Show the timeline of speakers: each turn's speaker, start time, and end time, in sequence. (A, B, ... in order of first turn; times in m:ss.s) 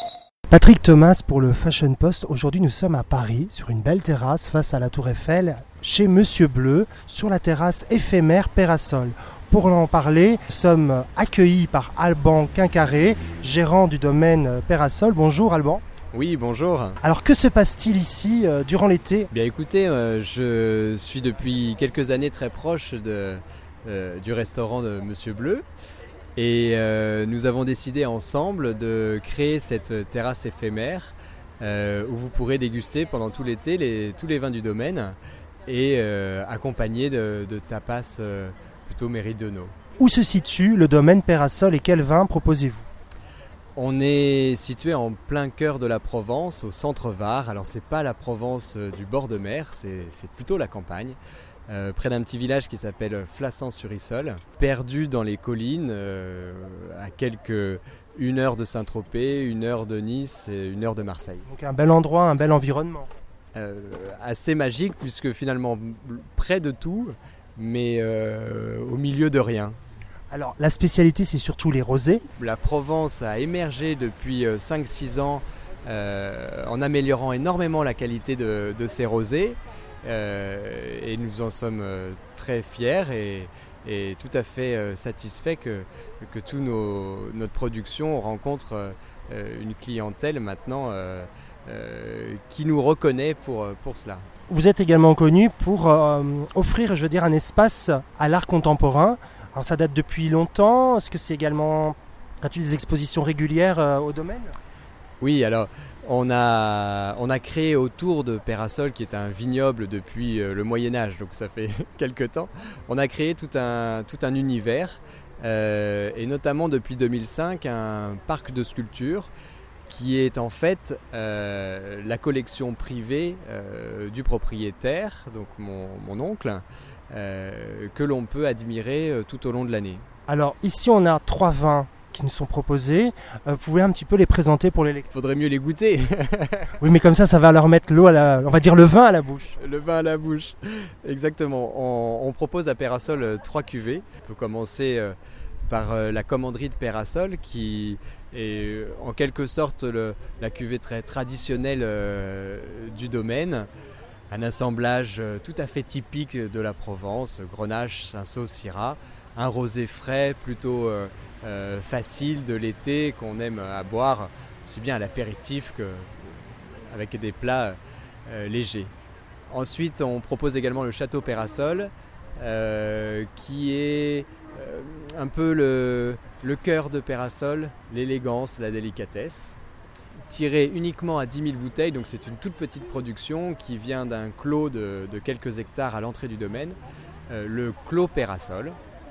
0:00.5-0:15.8 A
0:16.1-0:17.0 B
0:17.0-0:19.3 A
0:19.3-0:25.6 B
0:26.4-0:39.8 B
0:40.0-0:42.9 A
0:43.8-0:51.2 B
0:51.7-1:01.4 B
1:01.5-1:03.1 A
1:03.6-1:09.8 B
1:10.3-1:12.2 A
1:12.4-1:34.3 B
1:34.5-1:44.5 A
1:45.2-1:59.3 B
1:59.9-2:10.0 B
2:10.3-2:15.1 A
2:15.1-2:16.8 B
2:16.8-2:19.6 A
2:19.6-2:25.2 B
2:25.7-2:33.7 B
2:34.3-2:48.9 B
2:49.5-2:59.6 B
3:00.3-3:08.8 B